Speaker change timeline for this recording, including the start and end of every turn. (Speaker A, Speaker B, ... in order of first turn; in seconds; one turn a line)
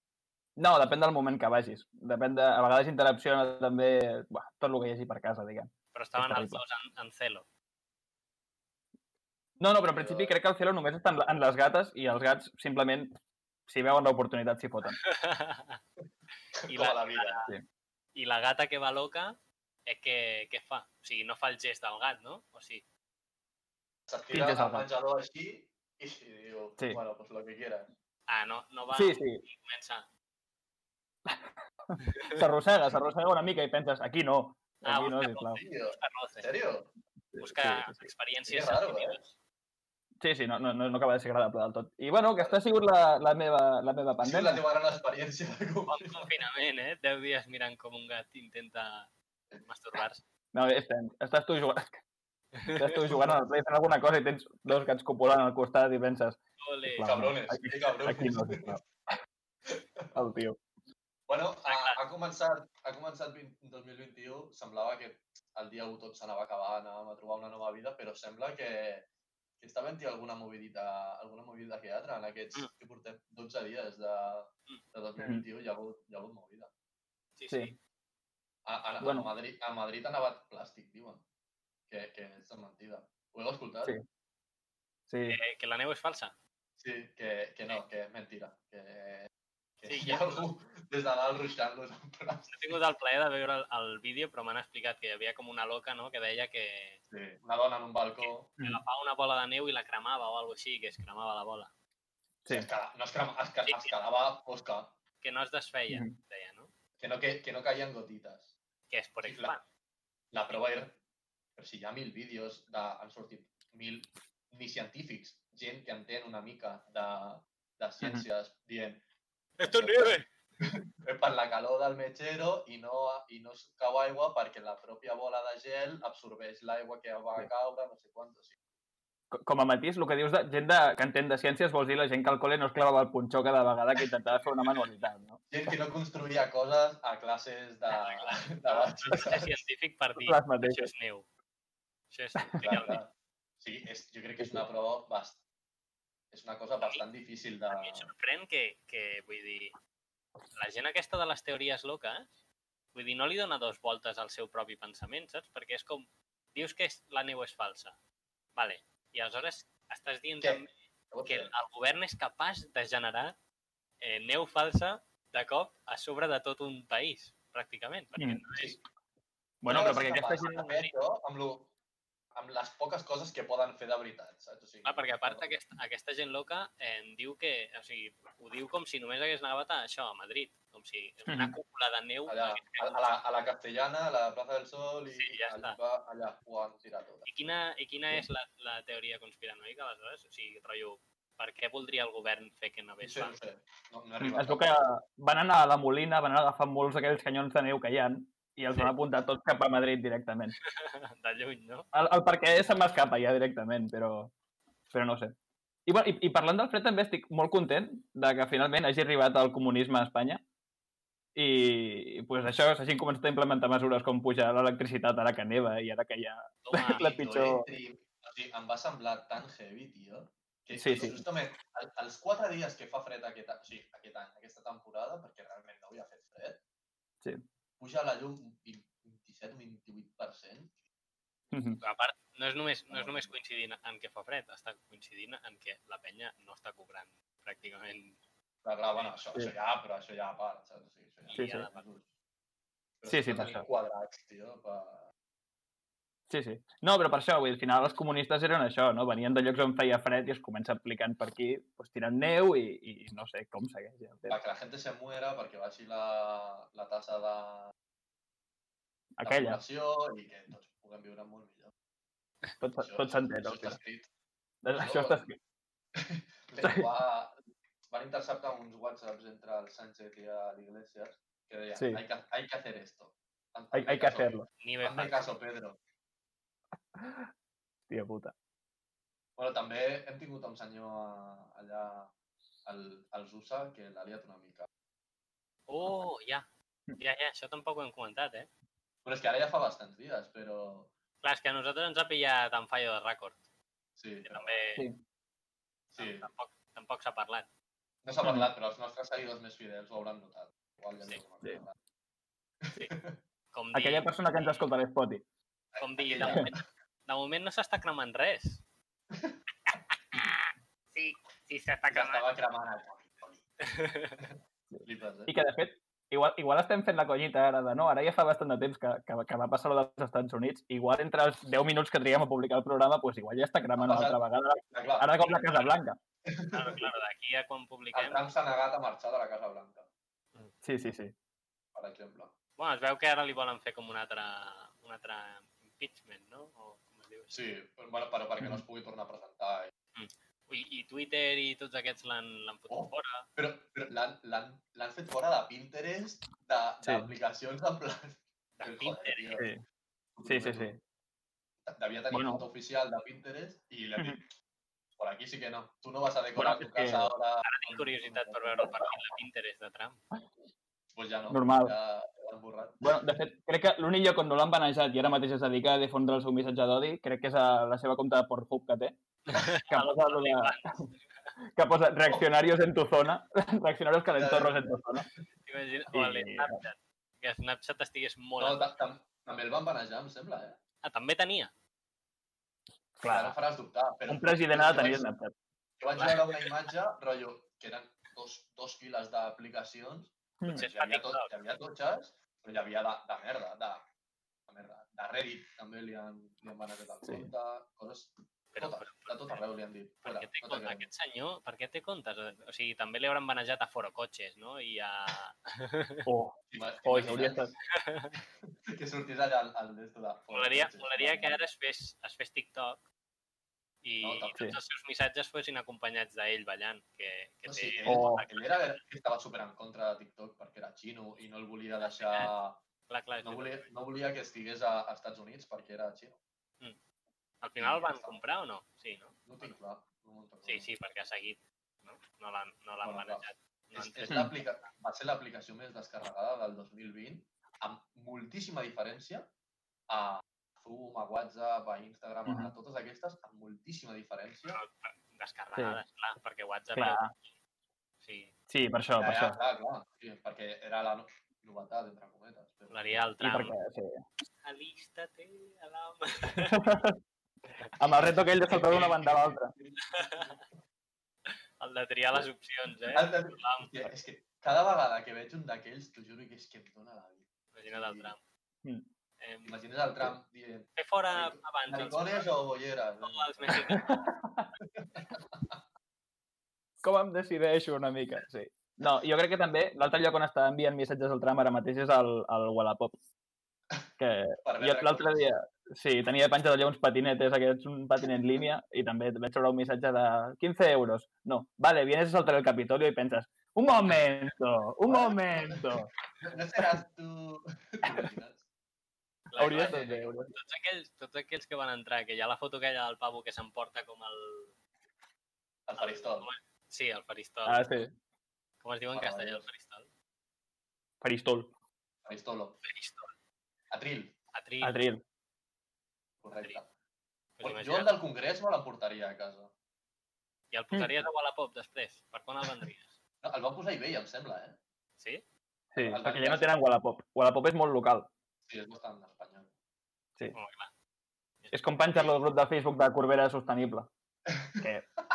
Speaker A: 0.6-6.6
Speaker B: 5.9-7.5
Speaker A: 9.6-13.1
Speaker C: 9.8-10.3
Speaker A: 13.7-15.0
Speaker B: 15.0-15.8
Speaker C: 16.6-17.4
Speaker B: 16.6-17.5
Speaker B: 18.1-22.8
Speaker C: 24.1-27.9
Speaker A: 24.3-24.9
Speaker B: 28.3-30.1
Speaker A: 28.9-29.4
Speaker A: 31.2-35.6
Speaker B: 34.8-36.5
Speaker C: 35.5-36.9
Speaker A: 37.3-38.1
Speaker B: 37.4-39.4
Speaker C: 38.5-39.2
Speaker A: 40.2-44.6
Speaker C: 44.2-46.3
Speaker B: 45.9-49.1
Speaker B: 49.6-50.2
Speaker A: 50.5-52.0
Speaker B: 52.6-52.8
Speaker A: 52.7-56.4
Speaker B: 56.6-57.1
Speaker A: 56.9-58.9
Speaker C: 57.0-58.8
Speaker C: 59.7-60.1
Speaker A: 60.1-60.6
Speaker C: 61.3-69.1
Speaker B: 61.7-62.0
Speaker C: 69.6-76.7
Speaker A: 75.2-75.4
Speaker B: 77.3-77.8
Speaker A: 77.5-77.7
Speaker C: 78.7-81.2
Speaker A: 79.0-79.3
Speaker C: 81.9-83.9
Speaker A: 85.1-85.4
Speaker B: 85.3-86.3
Speaker C: 86.8-89.3
Speaker C: 89.8-92.7
Speaker B: 89.9-90.5
Speaker B: 92.5-97.0
Speaker C: 97.1-98.5
Speaker B: 98.2-101.7
Speaker C: 102.5-104.9
Speaker B: 103.6-103.9
Speaker B: 105.2-106.7
Speaker C: 107.0-108.5
Speaker B: 108.9-109.7
Speaker C: 109.2-109.5
Speaker C: 110.3-111.0
Speaker C: 111.6-119.0
Speaker B: 119.6-120.3
Speaker C: 119.6-128.5
Speaker A: 129.3-135.4
Speaker C: 135.5-139.6
Speaker B: 137.9-141.3
Speaker A: 140.2-140.9
Speaker B: 142.1-143.0
Speaker C: 142.6-145.4
Speaker A: 144.4-144.6
Speaker C: 146.3-148.1
Speaker B: 147.7-149.7
Speaker B: 150.6-152.4
Speaker B: 152.9-158.0
Speaker B: 158.6-160.7
Speaker C: 160.4-161.5
Speaker B: 161.2-163.4
Speaker B: 164.0-168.8
Speaker A: 168.2-168.4
Speaker A: 169.6-170.7
Speaker C: 169.7-171.7
Speaker B: 170.5-170.9
Speaker C: 172.3-175.5
Speaker B: 174.8-183.0
Speaker A: 181.3-181.5
Speaker C: 182.3-187.2
Speaker B: 185.1-185.8
Speaker B: 187.2-193.3
Speaker C: 193.0-194.8
Speaker A: 194.2-200.6
Speaker B: 200.7-201.9
Speaker A: 201.9-204.3
Speaker A: 204.9-205.3
Speaker A: 205.8-210.4
Speaker A: 211.3-217.6
Speaker B: 216.7-217.1
Speaker C: 216.7-226.6
Speaker A: 220.8-221.2
Speaker C: 227.8-230.7
Speaker A: 231.5-231.8
Speaker B: 231.8-238.2
Speaker C: 232.9-233.3
Speaker C: 238.6-242.0
Speaker B: 238.9-239.2
Speaker B: 241.2-241.8
Speaker A: 241.3-241.7
Speaker C: 243.0-245.1
Speaker A: 243.1-243.7
Speaker A: 246.3-254.4
Speaker C: 254.3-257.7
Speaker A: 259.2-259.6
Speaker C: 259.2-261.7
Speaker A: 262.6-263.8
Speaker C: 262.8-264.1
Speaker A: 264.6-265.4
Speaker C: 264.8-265.2
Speaker C: 265.9-267.3
Speaker A: 266.6-266.9
Speaker C: 267.9-275.8
Speaker A: 271.8-272.0
Speaker A: 273.7-274.5
Speaker B: 274.6-275.3
Speaker A: 277.0-277.3
Speaker A: 277.9-278.3
Speaker C: 279.4-282.1
Speaker C: 282.6-284.7
Speaker B: 285.7-286.4
Speaker B: 287.0-288.5
Speaker C: 289.0-290.9
Speaker B: 291.2-293.5
Speaker C: 294.0-294.6
Speaker B: 294.2-294.8
Speaker C: 295.9-296.3
Speaker B: 295.9-297.5
Speaker C: 298.0-301.7
Speaker C: 302.6-303.2
Speaker B: 303.5-304.7
Speaker A: 303.7-305.2
Speaker C: 305.7-306.6
Speaker B: 305.8-308.6
Speaker B: 310.1-310.4
Speaker B: 310.9-312.2
Speaker C: 311.9-313.5
Speaker B: 313.6-314.2
Speaker C: 314.2-315.3
Speaker A: 314.7-326.0
Speaker C: 323.8-324.2
Speaker C: 324.7-325.1
Speaker B: 325.2-325.7
Speaker C: 326.3-326.8
Speaker B: 326.5-328.2
Speaker C: 327.9-329.9
Speaker A: 330.6-331.1
Speaker C: 331.7-332.3
Speaker B: 332.6-337.4
Speaker C: 337.3-339.7
Speaker B: 339.9-343.3
Speaker C: 342.7-349.4
Speaker A: 346.8-347.1
Speaker B: 348.6-349.3
Speaker C: 350.1-350.8
Speaker A: 350.2-350.8
Speaker C: 351.6-354.3
Speaker A: 352.1-352.4
Speaker C: 355.0-358.7
Speaker A: 356.4-357.1
Speaker B: 357.4-360.0
Speaker C: 360.9-362.9
Speaker A: 361.3-361.7
Speaker A: 362.8-369.0
Speaker B: 369.3-371.3
Speaker A: 369.6-370.5
Speaker A: 371.5-375.1
Speaker C: 374.1-374.7
Speaker B: 375.4-378.7
Speaker A: 375.9-376.6
Speaker C: 378.4-380.6
Speaker B: 380.8-381.5
Speaker A: 383.0-383.4
Speaker C: 383.1-385.1
Speaker A: 384.1-385.3
Speaker C: 385.8-393.8
Speaker B: 385.9-386.5
Speaker B: 390.5-391.3
Speaker C: 394.5-400.9
Speaker A: 397.0-397.3
Speaker B: 398.5-399.4
Speaker B: 400.0-406.0
Speaker A: 406.1-407.5
Speaker C: 406.5-407.5
Speaker B: 407.8-408.1
Speaker C: 408.7-411.4
Speaker B: 410.3-412.8
Speaker B: 413.8-418.8
Speaker C: 414.0-414.4
Speaker C: 417.4-422.6
Speaker A: 417.9-418.2
Speaker B: 421.8-422.3
Speaker B: 422.9-423.7
Speaker C: 423.2-426.2
Speaker B: 427.4-429.6
Speaker C: 427.6-428.2
Speaker C: 429.3-430.7
Speaker B: 430.4-434.7
Speaker C: 432.8-439.3
Speaker C: 439.9-444.6
Speaker A: 442.3-442.5
Speaker B: 444.5-447.4
Speaker A: 446.8-447.1
Speaker B: 448.0-448.3
Speaker A: 448.5-449.4
Speaker C: 449.0-453.0
Speaker B: 452.7-453.5
Speaker A: 453.2-454.0
Speaker B: 454.4-456.6
Speaker A: 456.5-457.0
Speaker A: 457.8-459.5
Speaker C: 457.9-460.5
Speaker B: 459.9-460.4
Speaker B: 461.3-463.7
Speaker C: 462.9-468.1
Speaker B: 467.5-468.2
Speaker B: 469.2-469.6
Speaker C: 469.4-473.8
Speaker B: 470.8-472.3
Speaker B: 473.0-473.9
Speaker A: 473.8-474.5
Speaker C: 474.7-475.6
Speaker A: 476.8-483.0
Speaker A: 484.0-495.9
Speaker C: 484.4-485.3
Speaker C: 494.9-495.6
Speaker C: 496.2-498.4
Speaker B: 499.3-504.5
Speaker A: 499.4-500.3
Speaker C: 499.6-499.9
Speaker C: 505.7-506.3
Speaker B: 505.8-507.6
Speaker A: 507.4-507.9
Speaker B: 508.6-509.9
Speaker C: 508.9-509.4
Speaker A: 511.0-511.5
Speaker C: 512.0-512.6
Speaker B: 512.6-513.1
Speaker C: 513.7-514.1
Speaker B: 514.3-514.8
Speaker A: 514.6-515.0
Speaker C: 516.2-516.7
Speaker B: 517.4-517.9
Speaker C: 517.4-519.5
Speaker B: 520.5-523.0
Speaker C: 523.2-524.6
Speaker B: 525.0-525.2
Speaker A: 525.7-528.1
Speaker C: 525.8-526.5
Speaker C: 528.5-529.5
Speaker B: 530.3-530.7
Speaker B: 531.4-531.7
Speaker A: 531.5-533.9
Speaker C: 531.9-532.2
Speaker C: 534.3-534.6
Speaker A: 534.6-534.8